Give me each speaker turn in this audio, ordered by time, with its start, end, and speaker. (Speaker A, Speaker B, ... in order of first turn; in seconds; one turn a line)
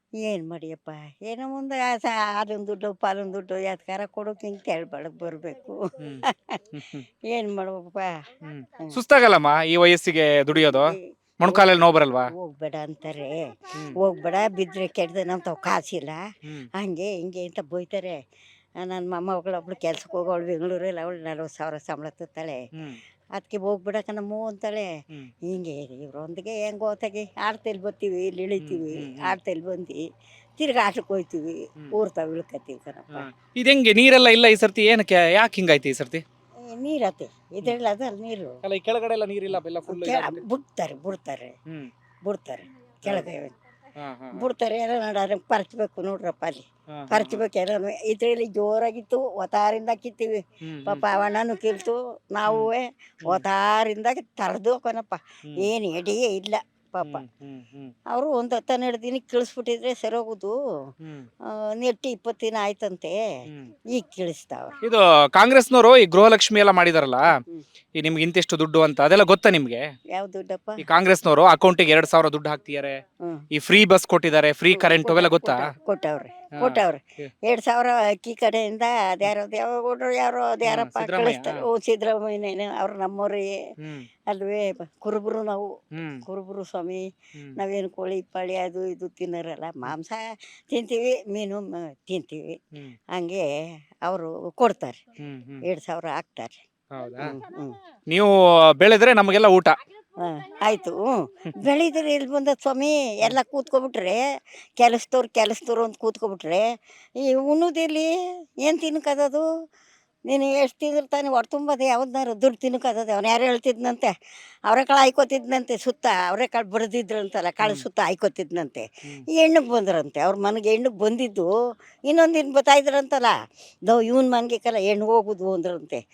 Speaker A: 0.2-5.8
Speaker B: 6.0-7.0
Speaker A: 6.3-6.6
Speaker A: 7.3-8.2
Speaker B: 8.4-12.3
Speaker A: 10.6-11.7
Speaker A: 12.3-16.2
Speaker A: 16.8-18.2
Speaker A: 18.8-22.6
Speaker B: 22.8-23.0
Speaker A: 23.4-24.9
Speaker A: 25.5-30.0
Speaker B: 28.6-29.4
Speaker A: 30.6-33.3
Speaker B: 33.1-36.2
Speaker A: 36.6-38.6
Speaker B: 38.6-40.4
Speaker A: 39.9-41.5
Speaker A: 42.2-43.5
Speaker B: 44.0-44.4
Speaker A: 44.3-57.2
Speaker B: 46.9-47.4
Speaker B: 50.6-51.0
Speaker B: 57.0-57.9
Speaker A: 58.1-60.6
Speaker B: 61.0-61.3
Speaker A: 61.5-63.2
Speaker A: 63.9-64.8
Speaker B: 64.8-67.3
Speaker B: 68.0-69.9
Speaker A: 70.1-70.8
Speaker B: 70.8-73.0
Speaker B: 73.5-75.7
Speaker A: 74.7-83.5
Speaker B: 76.5-77.3
Speaker B: 80.7-81.7
Speaker B: 83.8-84.1
Speaker A: 84.3-85.7
Speaker B: 85.9-86.2
Speaker A: 86.2-92.6
Speaker A: 93.1-93.5
Speaker A: 94.0-95.0
Speaker B: 95.2-95.7
Speaker A: 95.6-96.6
Speaker B: 96.9-97.4
Speaker A: 97.2-97.8
Speaker B: 98.1-99.8
Speaker A: 100.2-104.2
Speaker A: 104.8-106.7
Speaker A: 107.2-108.1
Speaker A: 108.6-109.4
Speaker A: 110.3-114.1
Speaker A: 114.7-121.5
Speaker A: 122.1-123.3
Speaker A: 123.9-126.0